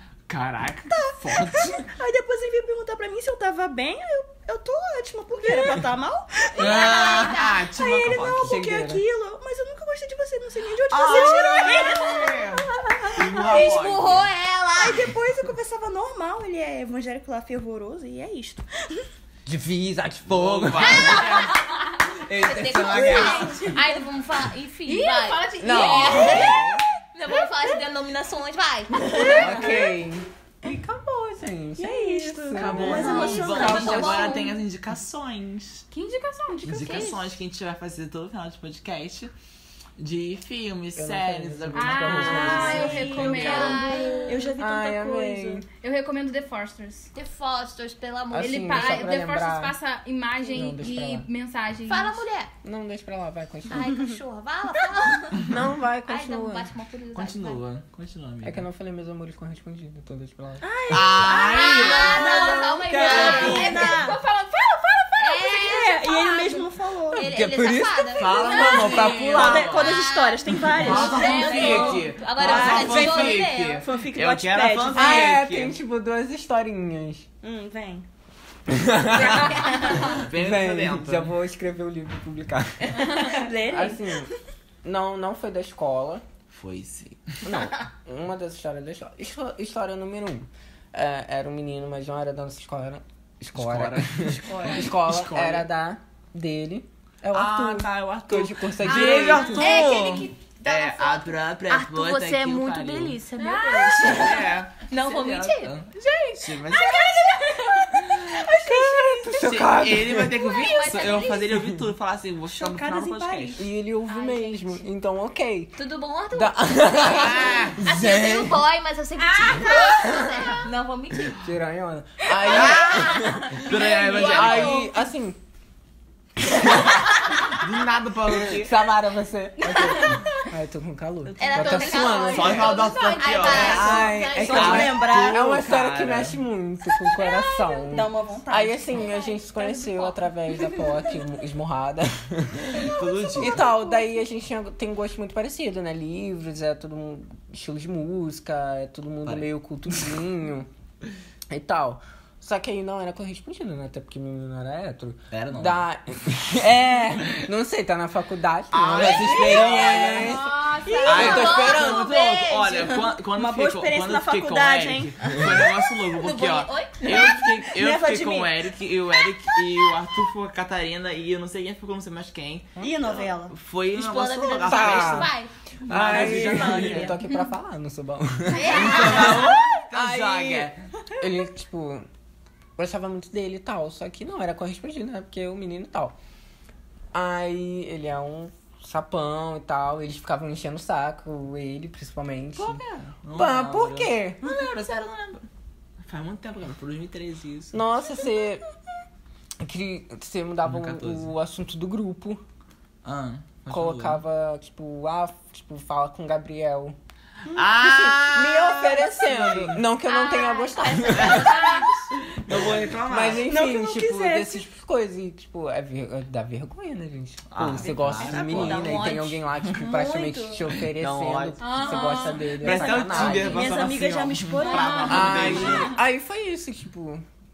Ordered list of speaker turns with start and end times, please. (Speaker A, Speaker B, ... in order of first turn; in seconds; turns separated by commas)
Speaker A: 0.3-1.9, Speaker B: 0.8-13.9, Speaker A: 5.5-5.8, Speaker C: 6.6-7.6, Speaker A: 6.6-8.6, Speaker D: 8.4-9.0, Speaker A: 10.9-14.3, Speaker C: 13.4-15.0, Speaker B: 14.7-19.0, Speaker D: 19.4-21.5, Speaker A: 20.3-23.7, Speaker C: 20.8-29.7, Speaker B: 23.2-23.5, Speaker E: 23.4-24.0, Speaker E: 24.8-26.6, Speaker D: 25.6-26.6, Speaker A: 25.6-26.8, Speaker B: 29.1-29.8, Speaker D: 29.2-34.3, Speaker B: 31.8-34.4, Speaker A: 32.5-35.9, Speaker C: 32.8-34.6, Speaker E: 33.0-33.4, Speaker E: 35.9-37.3, Speaker A: 36.6-39.3, Speaker A: 40.0-43.9, Speaker D: 40.9-43.7, Speaker E: 41.7-44.4, Speaker C: 43.2-44.5, Speaker B: 43.5-45.6, Speaker D: 44.5-45.6, Speaker E: 45.8-47.1, Speaker C: 47.1-49.2, Speaker D: 48.3-49.8, Speaker E: 48.4-52.2, Speaker D: 50.5-51.3, Speaker C: 51.9-52.5, Speaker D: 52.6-53.9, Speaker C: 53.7-55.5, Speaker D: 55.4-56.7, Speaker C: 56.1-57.6, Speaker A: 57.1-58.7, Speaker D: 58.4-60.6, Speaker B: 60.6-64.2, Speaker A: 60.9-63.8, Speaker C: 61.4-63.9, Speaker E: 63.0-66.0, Speaker C: 65.2-69.1, Speaker B: 65.7-67.3, Speaker D: 67.1-69.8, Speaker A: 68.1-70.1, Speaker E: 68.4-69.1, Speaker B: 69.2-75.4, Speaker C: 69.7-73.8, Speaker A: 70.7-75.8, Speaker E: 70.8-72.1, Speaker D: 74.9-77.2, Speaker B: 77.4-78.0, Speaker D: 78.7-84.3, Speaker B: 79.3-80.0, Speaker A: 80.0-81.3, Speaker B: 82.9-84.2, Speaker D: 84.8-86.2, Speaker A: 86.5-87.6, Speaker D: 87.4-99.9, Speaker A: 93.5-95.7, Speaker A: 97.3-103.2, Speaker C: 98.8-106.3, Speaker E: 99.5-100.2, Speaker E: 103.4-104.3, Speaker A: 104.0-107.4, Speaker E: 106.1-108.8, Speaker A: 108.0-113.6, Speaker D: 108.4-110.5, Speaker C: 110.3-111.6, Speaker D: 111.5-111.8, Speaker B: 112.5-113.6, Speaker D: 113.5-115.8, Speaker C: 114.0-114.8, Speaker C: 115.8-121.5, Speaker D: 116.3-118.6, Speaker A: 117.1-117.8, Speaker E: 119.2-120.6, Speaker D: 121.4-125.4, Speaker C: 122.4-124.8, Speaker A: 122.4-124.8, Speaker E: 123.8-124.3, Speaker B: 124.1-124.5, Speaker A: 127.3-128.8, Speaker D: 128.4-132.8, Speaker C: 131.3-134.7, Speaker E: 131.7-134.1, Speaker A: 132.0-136.4, Speaker D: 133.5-150.7, Speaker B: 133.6-135.6, Speaker B: 137.8-139.0, Speaker C: 138.9-140.3, Speaker A: 142.7-143.7, Speaker A: 149.2-150.1, Speaker D: 151.5-160.5, Speaker A: 155.3-155.8, Speaker A: 158.7-160.5, Speaker C: 159.0-159.6, Speaker B: 159.2-159.6, Speaker E: 160.0-161.6, Speaker B: 160.8-165.7, Speaker C: 161.0-162.9, Speaker D: 161.0-162.1, Speaker A: 161.0-175.3, Speaker C: 166.1-167.4, Speaker B: 167.1-168.6, Speaker B: 172.8-173.5, Speaker C: 173.9-175.5, Speaker D: 174.6-175.3, Speaker D: 175.8-182.1, Speaker A: 175.9-177.2, Speaker B: 175.9-177.1, Speaker C: 176.2-177.0, Speaker C: 178.5-179.4, Speaker A: 178.7-180.8, Speaker D: 182.8-186.2, Speaker D: 187.1-194.4, Speaker A: 192.6-195.5, Speaker A: 196.0-197.8, Speaker D: 197.7-198.6, Speaker D: 199.6-202.4, Speaker A: 200.6-201.3, Speaker A: 203.0-204.2, Speaker D: 203.7-206.9, Speaker A: 207.5-209.8, Speaker D: 207.5-211.8, Speaker C: 210.0-212.1, Speaker A: 211.1-211.6, Speaker A: 212.3-213.5, Speaker D: 212.5-223.7, Speaker B: 213.3-214.6, Speaker A: 217.5-219.2, Speaker C: 218.2-220.8, Speaker B: 218.2-218.8, Speaker A: 220.7-226.0, Speaker E: 221.6-223.3, Speaker B: 223.0-225.7, Speaker E: 224.6-226.0, Speaker D: 225.1-227.2